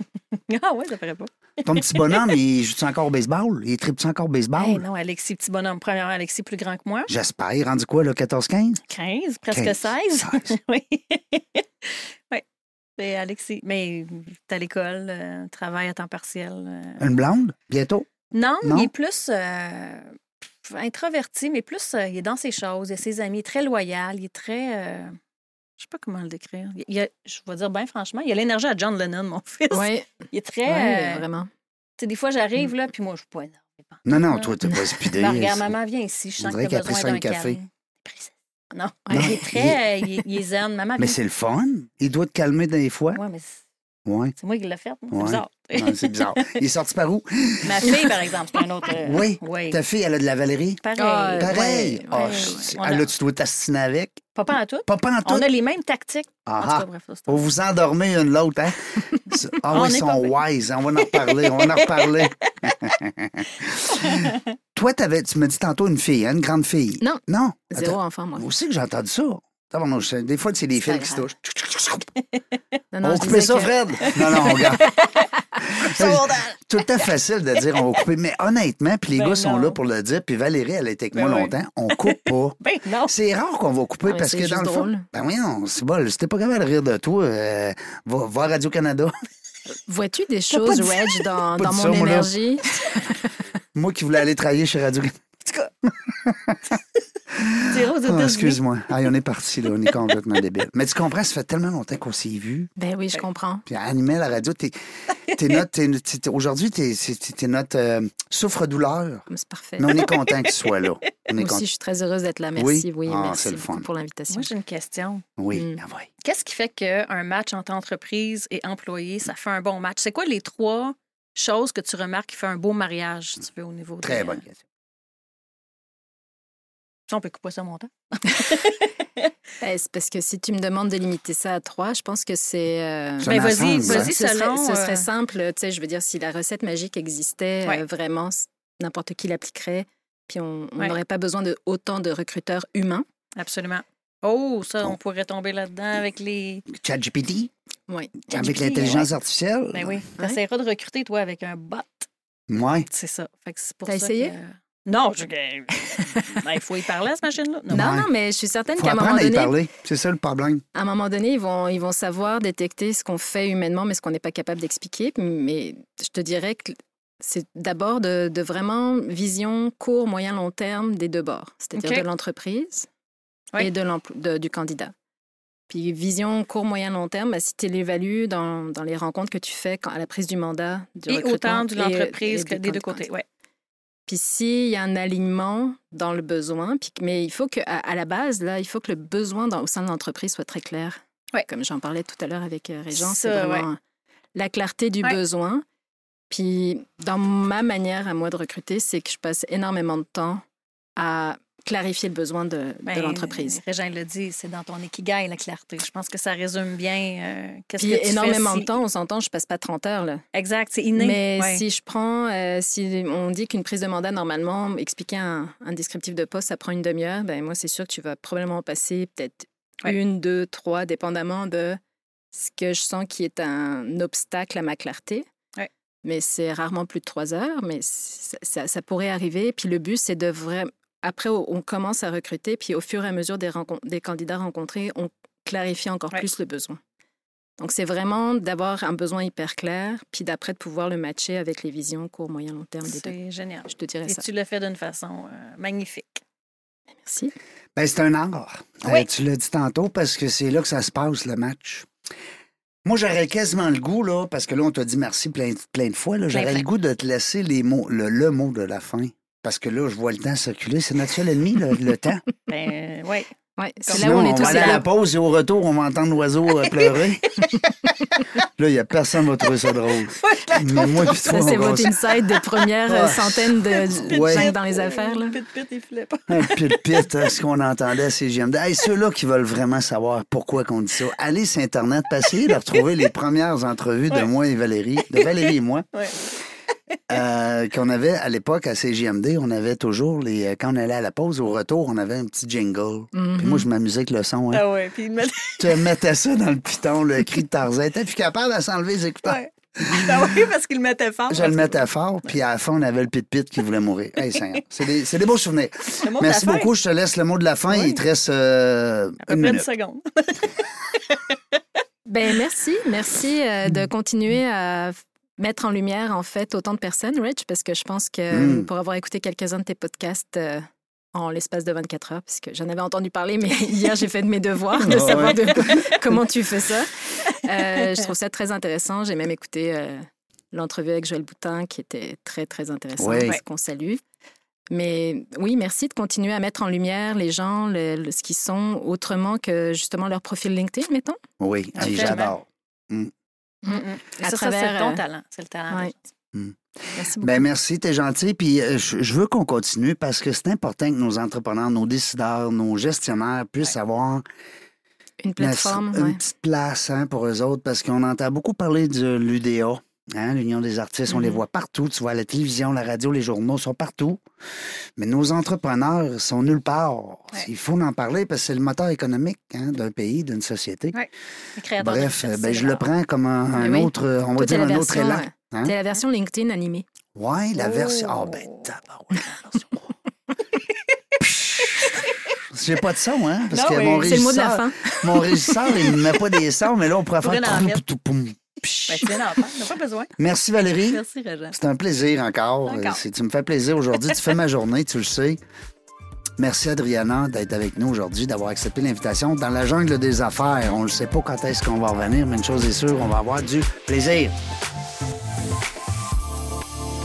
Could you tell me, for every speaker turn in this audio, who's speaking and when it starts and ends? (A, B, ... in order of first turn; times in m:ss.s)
0:00.4-0:02.4 A
0:01.6-0:04.8 B
0:04.6-0:07.1 A
0:07.1-0:08.8 B
0:08.9-0:12.4 A
0:09.5-0:10.5 B
0:13.0-0:17.1 A
0:17.0-0:18.1 B
0:18.3-0:25.2 A
0:18.6-0:18.9 B
0:25.8-0:31.2 A
0:29.7-0:30.1 C
0:30.7-0:31.5 C
0:32.0-0:41.2 A
0:34.1-0:35.7 B
0:36.4-0:37.6 B
0:39.1-0:39.4 C
0:39.1-0:39.8 B
0:41.0-0:43.2 B
0:43.1-0:43.6 A
0:44.1-0:44.4 B
0:44.4-0:46.6 A
0:45.1-0:48.2 B
0:47.6-0:49.8 A
0:48.9-0:50.8 B
0:50.8-0:53.1 A
0:51.0-0:52.7 C
0:51.4-0:54.3 B
0:54.4-0:57.5 A
0:54.9-0:55.5 B
0:56.5-1:12.1 B
0:59.4-1:00.4 A
1:01.1-1:02.8 A
1:04.0-1:04.4 A
1:07.0-1:08.5 C
1:10.8-1:11.3 C
1:12.9-1:14.8 C
1:13.0-1:14.9 B
1:14.0-1:17.1 A
1:15.6-1:29.1 B
1:19.1-1:19.8 A
1:21.1-1:23.1 A
1:24.0-1:25.1 C
1:29.9-1:33.3 C
1:30.7-1:31.2 A
1:31.6-1:32.3 B
1:33.8-1:35.3 B
1:35.8-1:36.8 B
1:37.3-1:42.7 B
1:37.6-1:38.6 A
1:42.8-1:43.6 C
1:43.7-1:44.8 B
1:45.3-1:49.3 B
1:49.3-1:49.9 C
1:49.8-1:51.6 B
1:50.0-1:50.7 A
1:51.4-1:54.5 C
1:52.6-1:53.9 B
1:54.3-1:55.2 A
1:55.4-1:56.1 B
1:55.5-1:55.8 C
1:56.2-2:04.4 A
2:04.0-2:04.6 B
2:07.1-2:09.3 A
2:09.6-2:23.0 C
2:13.2-2:14.1 B
2:13.2-2:15.1 A
2:23.4-2:26.7 A
2:26.7-2:27.5 B
2:27.9-2:29.0 C
2:28.3-2:30.1 B
2:28.3-2:29.1 A
2:29.7-2:32.1 A
2:32.5-2:32.9 B
2:32.9-2:37.9 A
2:33.9-2:34.4 C
2:37.7-2:38.1 B
2:37.7-2:39.5 C
2:38.8-2:40.6 B
2:40.7-2:52.9 C
2:51.8-2:52.0 A
2:53.6-2:54.9 C
2:55.7-3:03.1 C
3:01.1-3:03.2 A
3:04.1-3:13.8 C
3:13.0-3:13.7 A
3:14.4-3:15.6 C
3:16.3-3:20.4 C
3:21.0-3:23.6 C
3:22.9-3:28.7 A
3:27.8-3:30.2 C
3:30.3-3:31.6 A
3:31.0-3:41.8 C
3:42.3-3:45.3 C
3:46.0-3:56.8 C
3:57.6-4:03.2 C
4:02.8-4:06.2 A
4:03.7-4:04.2 C
4:07.0-4:07.3 C
4:07.8-4:11.9 B
4:12.8-4:22.2 B
4:16.3-4:16.7 A
4:22.5-4:23.3 A
4:23.6-4:24.8 C
4:23.9-4:24.8 A
4:24.0-4:27.3 B
4:26.6-4:28.2 A
4:28.6-4:31.9 B
4:30.1-4:32.7 A
4:31.2-4:35.4 C
4:32.9-4:34.5 B
4:33.8-4:37.2 A
4:36.3-4:45.9 B
4:45.0-4:46.3 A
4:47.1-4:54.7 B
4:53.1-4:53.7 C
4:54.5-4:55.9 A
4:55.6-5:00.4 B
4:59.2-5:02.3 A
5:01.3-5:09.7 B
5:04.2-5:04.5 A
5:06.0-5:06.7 A
5:07.7-5:08.0 A
5:09.2-5:11.6 A
5:12.1-5:34.0 C
5:18.3-5:18.7 B
5:24.8-5:25.8 B
5:25.0-5:25.8 A
5:33.0-5:33.4 B
5:34.7-5:41.2 C
5:41.4-5:43.1 B
5:41.8-5:42.4 A
5:43.6-5:45.0 C
5:43.7-5:46.0 A
5:46.3-5:54.2 B
5:47.0-5:47.5 C
5:55.2-5:56.2 C
5:55.4-6:04.2 B
6:05.0-6:11.0 B
6:10.9-6:12.9 A
6:11.8-6:15.8 B
6:13.5-6:16.9 C
6:17.2-6:19.8 B
6:17.6-6:19.6 A
6:21.2-6:29.2 B
6:21.7-6:22.2 A
6:23.5-6:24.2 A
6:24.0-6:26.0 C
6:27.2-6:27.8 A
6:28.9-6:30.1 A
6:30.2-6:35.4 B
6:30.8-6:31.6 A
6:32.7-6:33.0 A
6:36.4-6:44.3 B